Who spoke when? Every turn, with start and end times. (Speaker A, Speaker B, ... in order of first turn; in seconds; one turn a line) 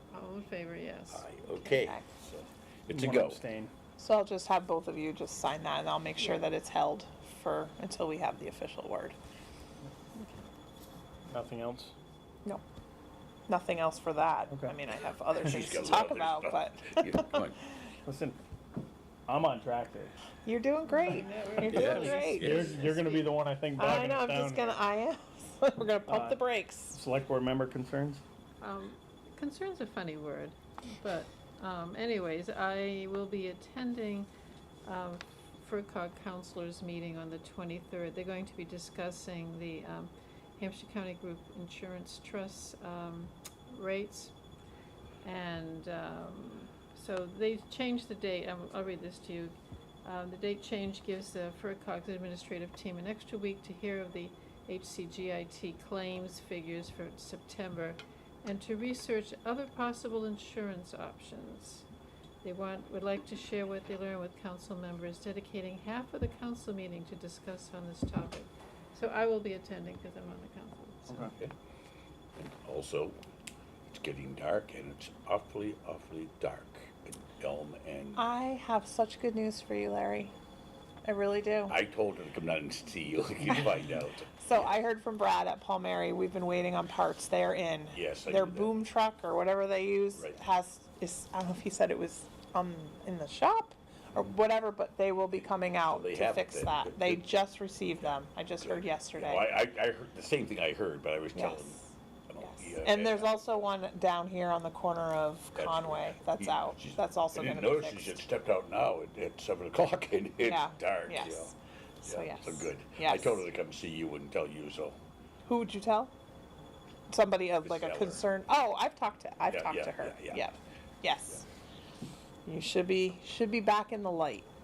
Speaker A: 0.1-1.2
Speaker B: 1.1-3.4
Speaker C: 1.6-2.1
Speaker D: 2.9-3.7
Speaker C: 4.0-9.2
Speaker A: 10.2-10.4
Speaker D: 11.3-11.9
Speaker C: 13.5-17.5
Speaker D: 14.5-14.8
Speaker B: 15.4-17.6
Speaker D: 18.1-18.4
Speaker D: 19.3-20.1
Speaker C: 20.4-27.0
Speaker A: 20.9-22.2
Speaker D: 21.7-24.8
Speaker B: 21.7-22.8
Speaker D: 26.1-28.2
Speaker A: 28.6-34.3
Speaker A: 34.8-44.3
Speaker A: 45.2-61.9
Speaker A: 62.4-71.3
Speaker B: 71.2-71.5
Speaker B: 72.3-73.2
Speaker B: 73.9-78.2
Speaker C: 78.2-80.3
Speaker C: 81.0-81.8
Speaker B: 81.7-84.7
Speaker C: 84.4-99.5
Speaker B: 87.9-88.7
Speaker B: 95.9-97.2
Speaker B: 98.0-103.5
Speaker C: 101.3-101.9
Speaker C: 102.4-108.2
Speaker B: 105.5-115.0
Speaker C: 110.4-111.5
Speaker C: 112.0-113.5
Speaker C: 115.5-116.1
Speaker C: 117.1-121.5
Speaker B: 117.6-118.2
Speaker B: 119.5-120.5
Speaker C: 122.5-124.5